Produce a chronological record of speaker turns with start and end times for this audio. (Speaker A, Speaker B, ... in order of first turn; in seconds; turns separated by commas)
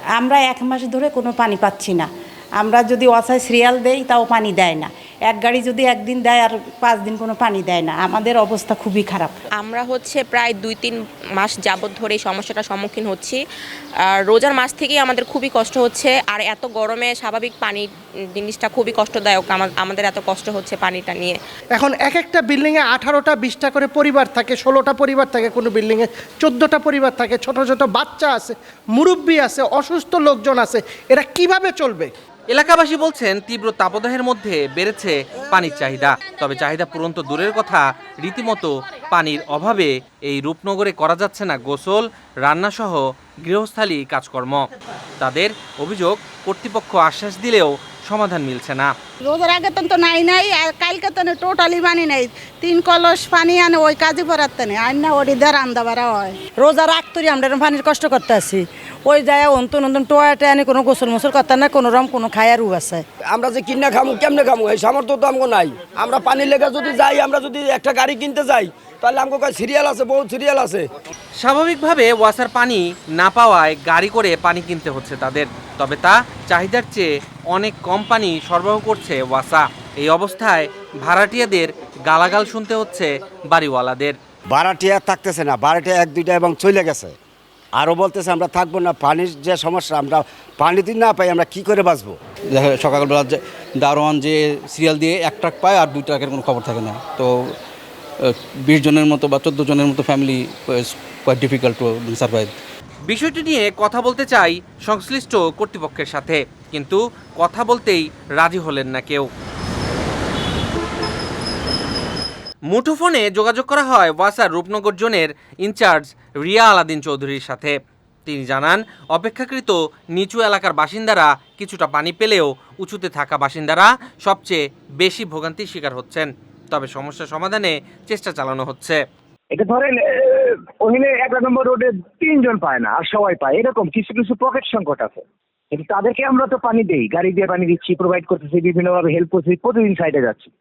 Speaker A: 0.2-2.1, Speaker A: 2.6-9.4, Speaker B: 9.6-13.4, Speaker B: 14.0-21.4, Speaker C: 21.7-32.1, Speaker D: 32.5-44.6, Speaker D: 45.2-48.9, Speaker E: 49.2-56.4, Speaker F: 56.6-63.0, Speaker G: 63.3-70.8, Speaker D: 71.4-84.2, Speaker H: 84.5-87.1, Speaker H: 87.7-92.2, Speaker I: 92.5-97.3, Speaker I: 98.3-102.5, Speaker D: 103.0-109.3, Speaker D: 112.7-117.7, Speaker D: 118.2-129.0, Speaker J: 129.5-130.0, Speaker J: 130.8-135.2, Speaker J: 135.7-140.5